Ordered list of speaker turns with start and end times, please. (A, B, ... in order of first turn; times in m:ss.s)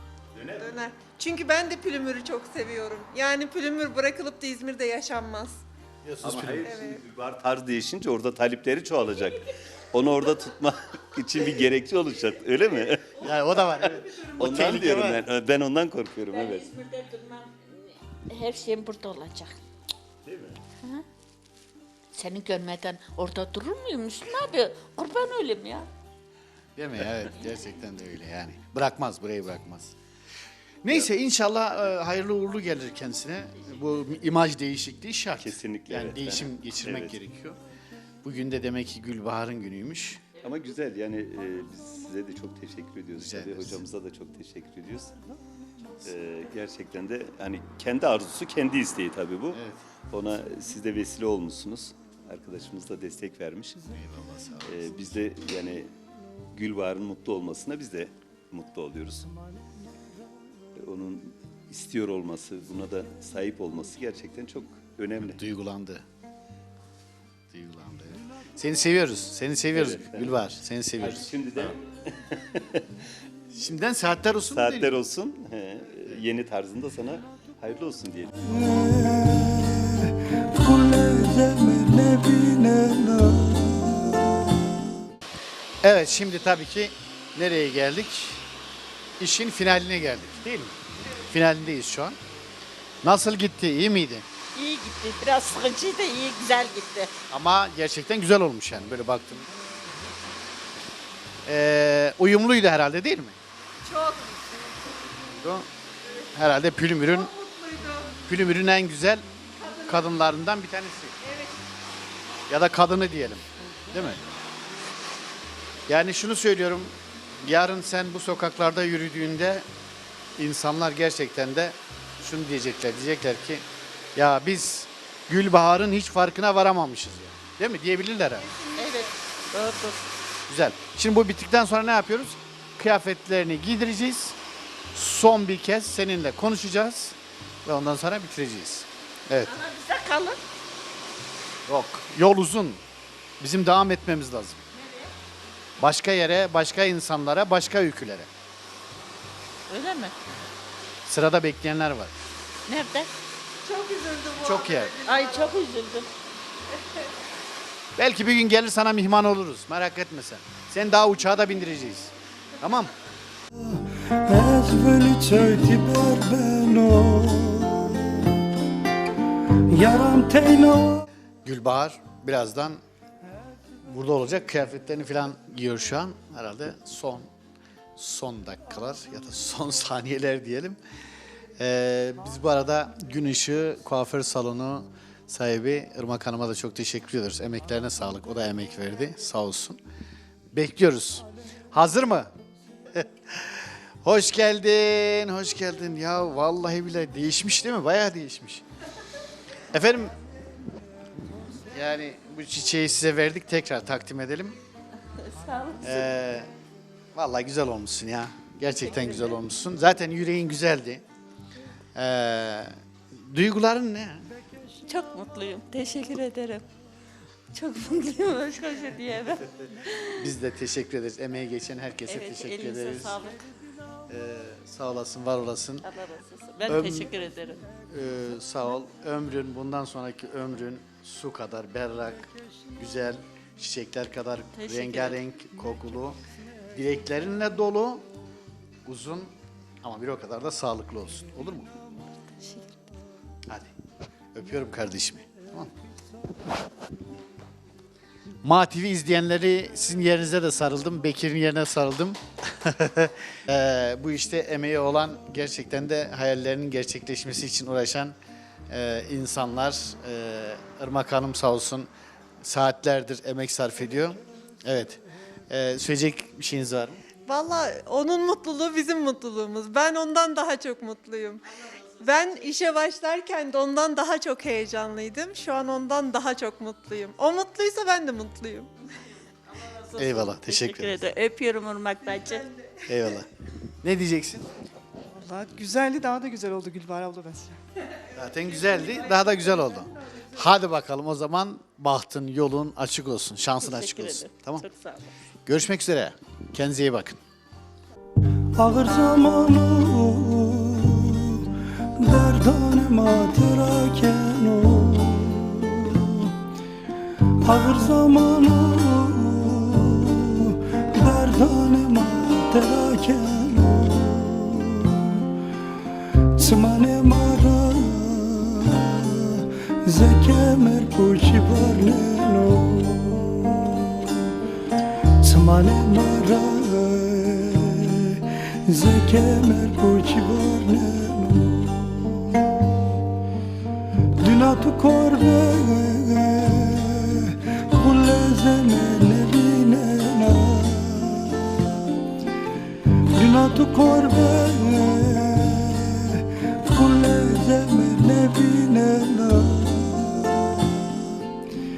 0:00.3-0:00.8 A
0:00.6-0:05.6 B
0:06.0-0:06.7 C
0:06.2-0:16.7 A
0:06.6-0:07.0 B
0:13.2-0:15.3 C
0:14.0-0:14.3 B
0:16.3-0:19.6 D
0:20.2-0:20.6 A
0:22.1-0:25.9 D
0:26.8-0:29.9 C
0:30.8-0:37.6 C
0:33.6-0:34.2 D
0:35.4-0:37.2 A
0:38.2-0:40.2 C
0:40.4-0:45.2 A
0:43.2-0:43.8 C
0:46.0-0:53.8 A
0:49.5-0:49.8 C
0:53.9-0:55.2 C
0:54.6-0:55.9 A
0:56.5-0:59.3 A
1:00.8-1:05.4 A
1:05.2-1:06.0 C
1:07.5-1:11.8 C
1:09.7-1:10.4 A
1:11.0-1:13.0 A
1:13.5-1:14.9 C
1:14.5-1:18.3 A
1:18.4-1:24.7 E
1:25.8-1:28.4 C
1:29.2-1:32.2 C
1:33.0-1:34.2 C
1:34.6-1:37.1 D
1:37.3-1:39.5 C
1:41.5-1:43.4 C
1:43.8-1:44.6 B
1:45.3-1:45.7 C
1:46.0-1:46.3 B
1:46.4-1:47.3 C
1:47.1-1:48.2 B
1:48.3-1:49.3 C
1:49.6-1:50.1 B
1:49.9-1:51.2 C
1:51.2-1:51.6 B
1:52.5-1:54.2 C
1:55.9-1:59.6 C
2:00.4-2:08.5 C
2:08.4-2:09.1 B
2:08.8-2:10.0 D
2:10.5-2:14.4 C
2:14.9-2:19.5 C
2:19.4-2:20.4 D
2:21.7-2:22.8 C
2:23.4-2:24.7 C
2:24.8-2:25.1 D
2:25.8-2:28.3 C
2:29.7-2:30.2 D
2:31.1-2:32.2 C
2:32.7-2:33.1 D
2:33.6-2:35.6 B
2:34.4-2:35.0 C
2:35.0-2:36.1 D
2:38.0-2:42.9 C
2:43.6-2:48.4 E
2:49.7-2:51.1 E
2:51.4-2:52.8 C
2:53.8-2:57.3 C
2:58.0-3:00.8 C
3:01.6-3:09.8 C
3:10.5-3:12.3 C
3:12.9-3:18.6 C
3:19.7-3:20.2 C
3:21.7-3:24.6 C
3:25.2-3:26.1 D
3:25.8-3:26.5 C
3:27.1-3:31.0 C
3:28.8-3:29.3 D
3:32.0-3:34.3 C
3:34.8-3:36.6 D
3:37.5-3:40.3 D
3:40.2-3:43.2 C
3:42.1-3:43.4 D
3:44.1-3:45.9 C
3:45.8-3:47.6 D
3:46.7-3:47.1 C
3:47.9-3:56.2 C
3:54.6-3:55.2 D
3:56.7-3:58.0 C
3:58.8-4:01.7 C
4:02.3-4:02.8 D
4:03.5-4:03.7 C
4:04.3-4:05.7 C
4:08.4-4:18.2 C
4:18.7-4:21.9 C
4:22.4-4:27.0 C
4:27.3-4:31.5 B
4:31.6-4:32.4 D
4:32.0-4:38.7 B
4:39.5-4:42.5 D
4:40.0-4:41.1 C
4:42.1-4:42.9 B
4:42.9-4:43.3 C
4:43.8-4:44.5 C
4:45.1-4:47.6 F
4:47.9-4:50.3 B
4:48.2-4:54.7 C
4:53.6-4:55.2 D
4:55.5-4:57.2 C
4:58.6-5:06.3 E
5:07.4-5:15.3 E
5:16.4-5:24.3 E
5:25.2-5:32.6 E
5:34.2-5:41.8 E
5:43.2-5:51.0 E